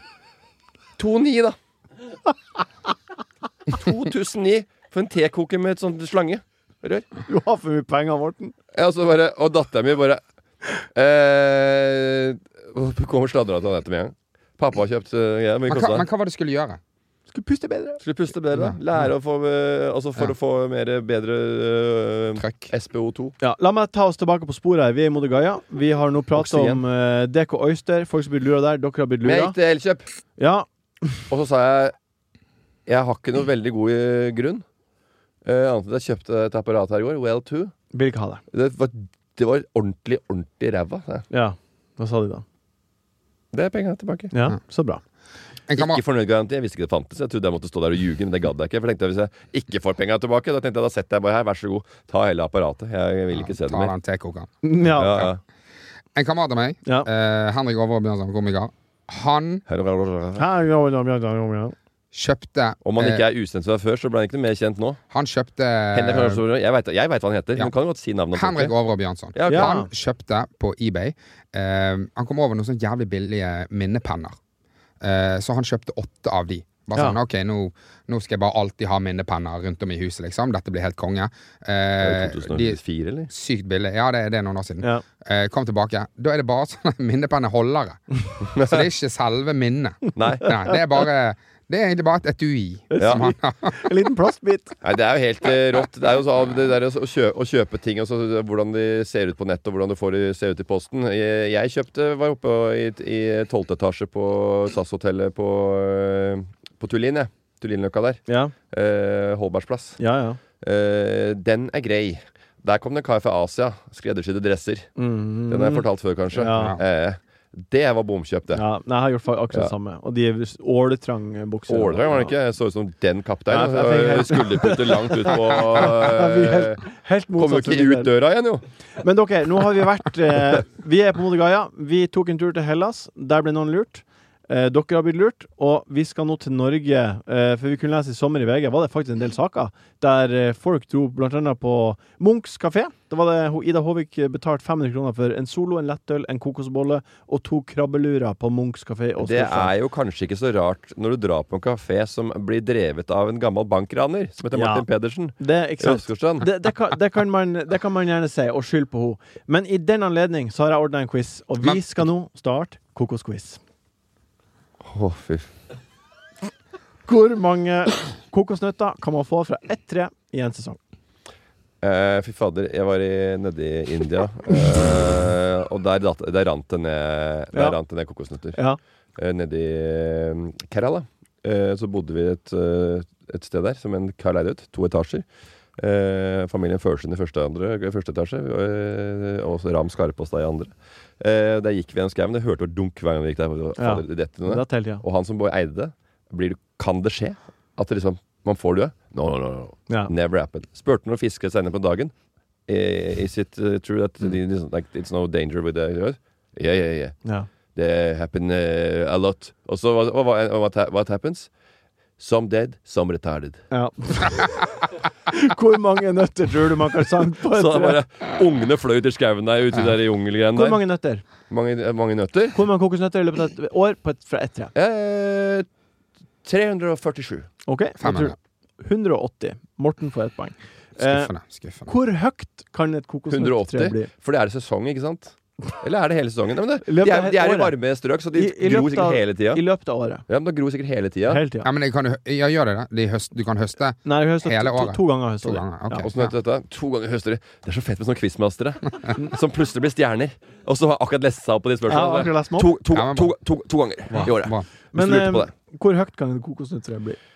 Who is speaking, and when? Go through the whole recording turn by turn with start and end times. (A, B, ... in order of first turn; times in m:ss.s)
0:01.0-0:01.6 A
0:03.7-0:07.1 A
0:07.3-0:08.5 B
0:08.7-0:10.2 A
0:10.9-0:16.1 A
0:15.7-0:16.8 C
0:17.3-0:18.0 B
0:18.0-0:23.4 A
0:22.4-0:22.7 C
0:23.4-0:29.6 B
0:26.4-0:26.8 A
0:29.2-0:30.1 A
0:30.4-0:31.2 B
0:31.3-0:32.0 A
0:32.9-0:34.6 A
0:35.4-0:37.7 A
0:37.9-0:38.4 B
0:38.5-0:41.3 A
0:41.3-0:42.4 B
0:43.5-0:44.3 A
0:44.3-0:45.0 B
0:45.7-0:46.0 C
0:45.8-0:53.9 A
0:53.3-0:54.5 C
0:54.6-0:55.3 B
0:55.0-0:55.4 A
0:56.2-0:59.6 C
0:59.7-1:00.5 A
1:00.4-1:01.8 B
1:02.1-1:03.2 C
1:02.8-1:05.0 A
1:05.1-1:06.4 C
1:05.9-1:08.7 A
1:08.3-1:14.4 C
1:09.4-1:09.8 A
1:09.5-1:09.9 B
1:15.0-1:28.0 C
1:22.0-1:23.3 A
1:28.5-1:28.9 A
1:28.6-1:33.8 C
1:30.2-1:30.5 A
1:32.9-1:34.8 B
1:33.0-1:33.3 A
1:34.8-1:50.0 A
1:48.3-1:48.5 B
1:50.0-1:50.4 B
1:50.6-1:54.9 A
1:55.0-1:56.8 B
1:55.5-1:58.6 A
1:56.5-1:56.8 C
1:58.5-2:02.3 B
2:01.7-2:06.8 A
2:03.5-2:08.1 B
2:07.4-2:08.6 A
2:09.0-2:29.7 B
2:29.2-2:36.5 A
2:34.5-2:34.9 B
2:35.4-2:43.6 B
2:44.8-2:45.5 A
2:47.1-2:50.8 B
2:51.8-2:58.6 A
2:58.5-2:58.8 B
2:59.2-3:05.2 A
3:05.8-3:22.1 A
3:13.8-3:15.0 B
3:22.7-3:27.2 A
3:27.8-3:31.5 A
3:32.2-3:33.6 A
3:33.7-3:34.5 B
3:35.3-3:38.0 B
3:37.5-3:40.8 A
3:40.5-3:41.2 B
3:41.5-3:42.6 A
3:42.5-3:44.7 B
3:44.8-3:45.7 A
3:46.4-3:47.5 A
3:47.7-3:51.3 B
3:48.0-3:48.4 C
3:51.0-3:51.9 C
3:51.9-3:54.1 B
3:53.3-3:59.6 A
3:56.8-3:57.8 B
3:58.4-4:00.2 B
4:00.3-4:01.4 A
4:01.3-4:01.7 B
4:01.6-4:06.3 C
4:04.0-4:06.1 B
4:06.0-4:15.5 A
4:11.9-4:12.7 B
4:12.9-4:13.3 C
4:14.1-4:14.7 C
4:14.9-4:17.2 B